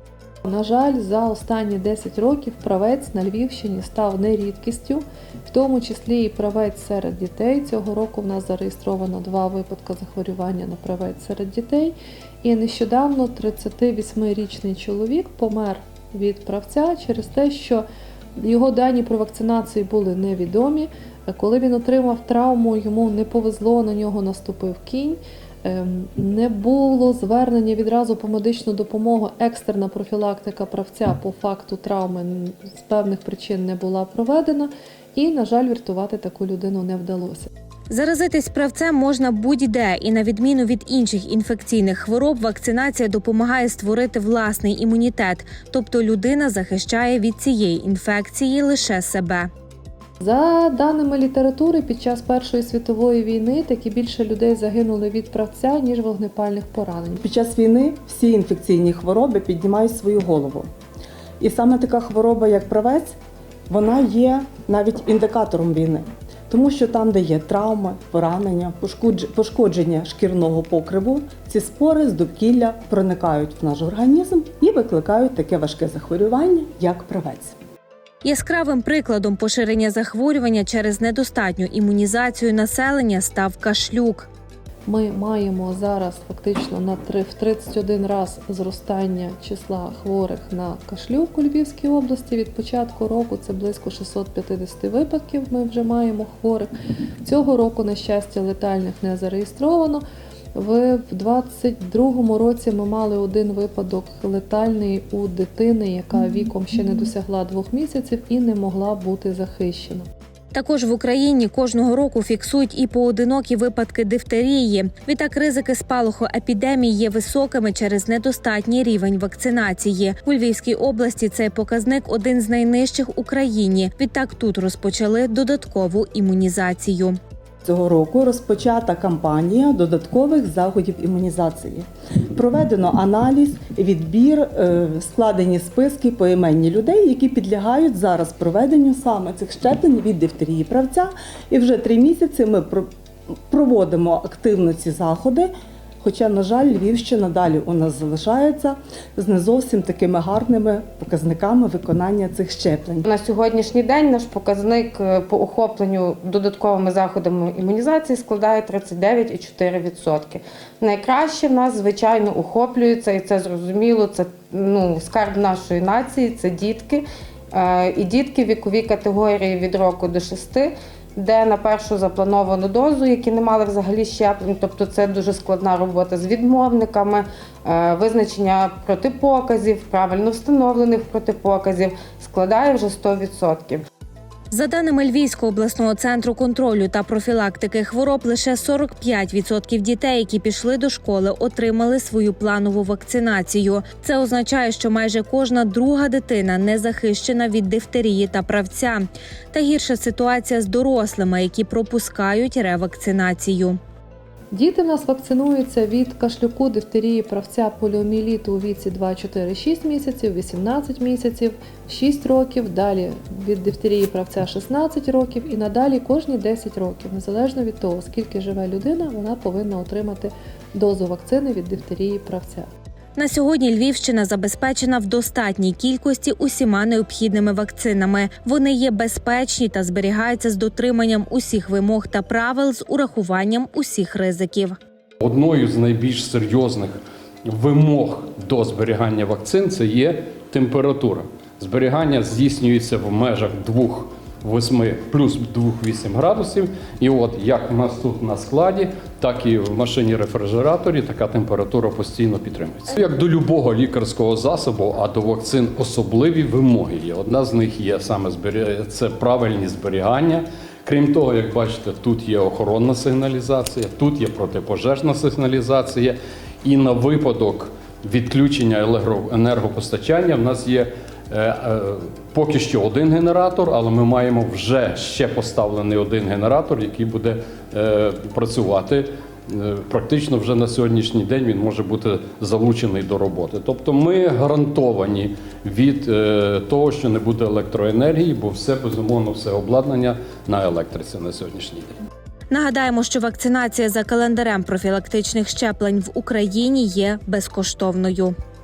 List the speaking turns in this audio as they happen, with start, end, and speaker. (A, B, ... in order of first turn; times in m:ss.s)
0:00.5-0:17.8 A
0:18.4-0:37.5 A
0:37.9-0:49.5 B
0:50.2-0:57.2 A
0:57.2-1:00.7 C
1:01.4-1:03.2 C
1:03.7-1:17.6 C
1:18.2-1:24.3 B
1:24.9-1:36.7 A
1:37.2-1:40.0 A
1:40.6-1:50.1 A
1:50.5-2:07.2 B
2:07.6-2:22.9 C
2:23.5-2:33.1 C
2:33.1-3:03.8 D
3:04.5-3:23.8 B
3:24.5-3:42.7 A
3:43.2-3:54.8 B
3:55.2-4:52.0 E
4:52.5-4:58.3 B